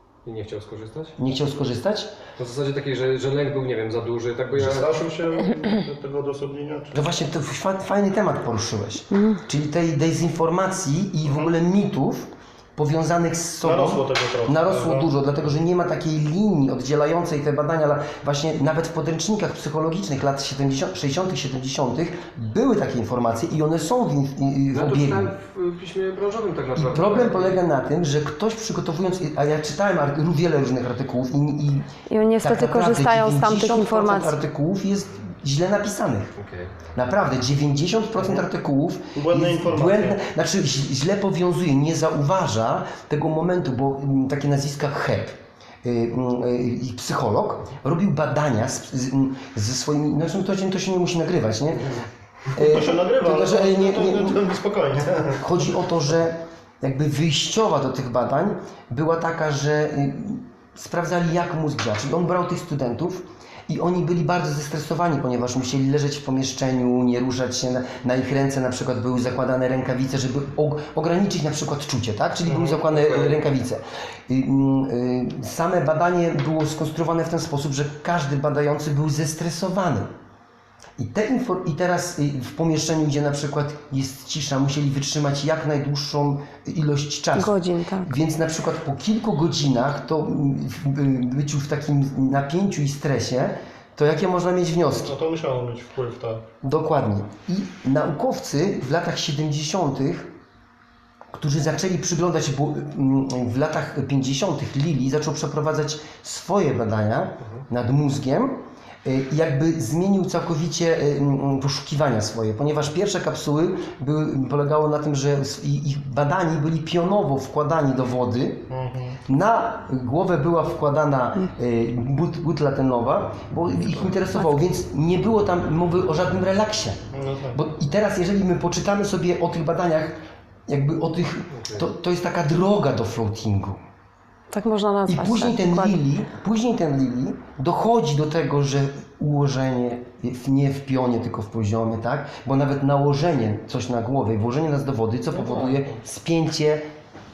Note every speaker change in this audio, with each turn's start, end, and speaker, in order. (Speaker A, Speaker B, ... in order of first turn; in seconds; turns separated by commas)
Speaker A: 0.2-1.1, Speaker B: 1.2-2.1, Speaker A: 2.4-4.9, Speaker C: 4.5-6.9, Speaker B: 6.9-25.3, Speaker C: 13.6-15.1, Speaker A: 24.7-27.6, Speaker B: 26.7-31.9, Speaker D: 32.1-34.4, Speaker B: 32.4-36.4, Speaker A: 36.4-36.7, Speaker B: 36.9-51.9, Speaker C: 39.1-40.2, Speaker B: 52.5-54.4, Speaker C: 52.5-55.5, Speaker B: 55.4-80.1, Speaker A: 72.5-73.4, Speaker B: 81.0-95.1, Speaker D: 87.3-88.1, Speaker C: 95.0-96.4, Speaker B: 96.6-100.3, Speaker B: 101.3-118.7, Speaker C: 118.7-119.2, Speaker B: 119.3-127.0, Speaker A: 123.8-124.2, Speaker C: 127.1-127.6, Speaker B: 127.5-133.8, Speaker A: 131.5-131.9, Speaker D: 134.5-136.0, Speaker B: 135.1-146.9, Speaker A: 145.3-145.9